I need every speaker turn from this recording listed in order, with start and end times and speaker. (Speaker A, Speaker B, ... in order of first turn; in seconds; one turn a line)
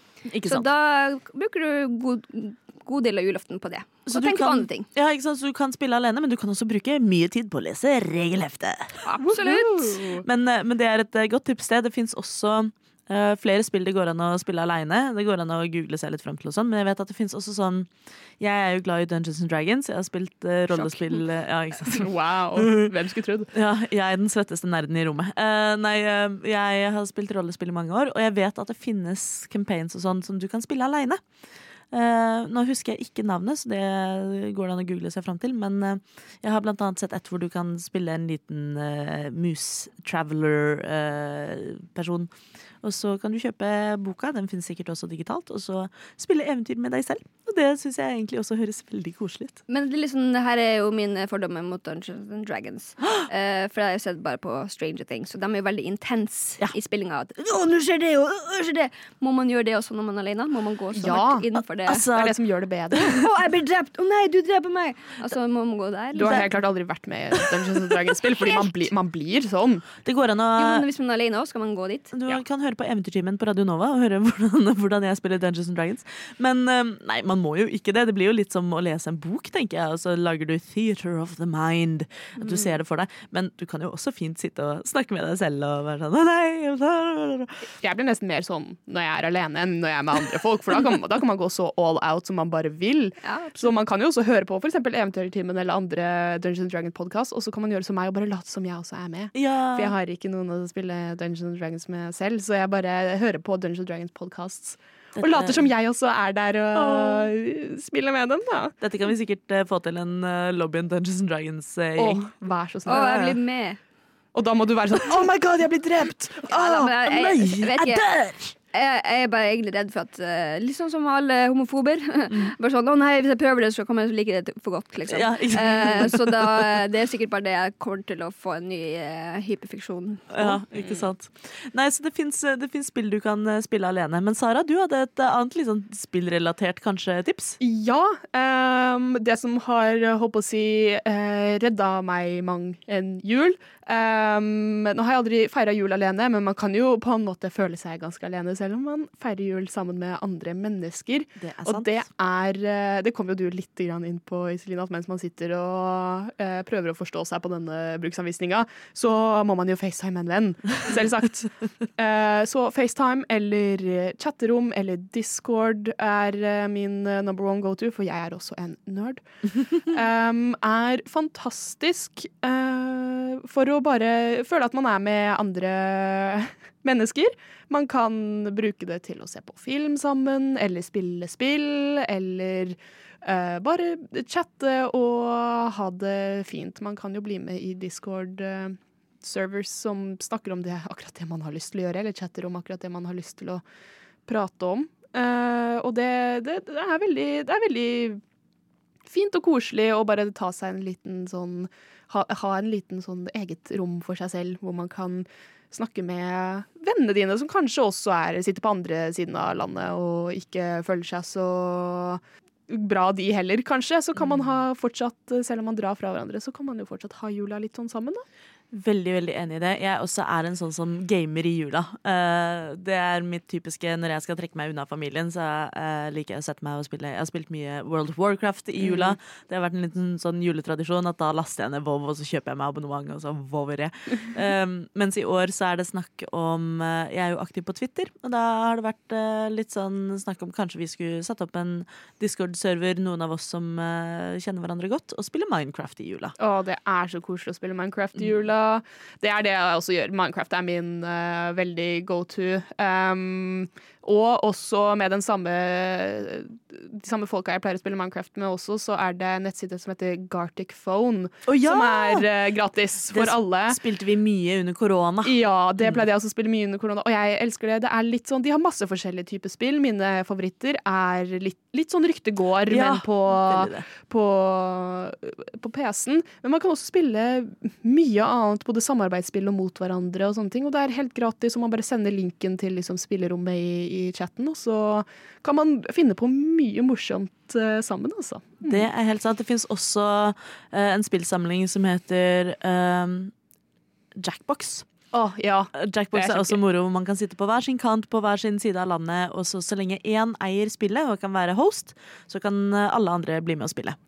Speaker A: 0.2-0.7
Speaker B: 0.4-4.9
Speaker A: 4.0-9.1
Speaker B: 9.1-10.0
Speaker C: 9.2-10.2
Speaker A: 10.2-22.9
Speaker C: 20.8-21.2
Speaker C: 21.8-23.5
Speaker A: 23.5-31.2
Speaker A: 31.9-49.6
Speaker B: 49.7-62.1
Speaker C: 60.9-61.5
Speaker A: 61.9-62.4
Speaker C: 62.1-63.2
Speaker B: 63.0-66.4
Speaker C: 66.1-69.8
Speaker A: 70.0-70.8
Speaker B: 70.5-72.1
Speaker A: 72.1-87.6
Speaker C: 87.8-108.7
Speaker B: 93.2-93.7
Speaker A: 99.3-99.9
Speaker A: 105.2-105.7
Speaker A: 106.7-107.3
Speaker A: 108.8-112.2
Speaker C: 112.0-113.3
Speaker B: 112.9-113.8
Speaker C: 114.3-115.5
Speaker A: 115.1-118.5
Speaker B: 116.5-118.1
Speaker B: 118.7-130.6
Speaker A: 125.1-126.8
Speaker A: 130.3-137.6
Speaker C: 130.7-131.1
Speaker C: 137.6-193.6
Speaker A: 151.4-152.0
Speaker C: 194.3-198.2
Speaker C: 199.1-218.2
Speaker A: 218.7-246.3
Speaker C: 228.8-229.1
Speaker C: 246.4-263.8
Speaker A: 261.5-262.3
Speaker A: 263.1-266.1
Speaker C: 265.2-288.9
Speaker A: 272.7-273.9
Speaker A: 288.6-293.3
Speaker A: 294.1-294.9
Speaker C: 295.1-296.6
Speaker A: 295.7-304.0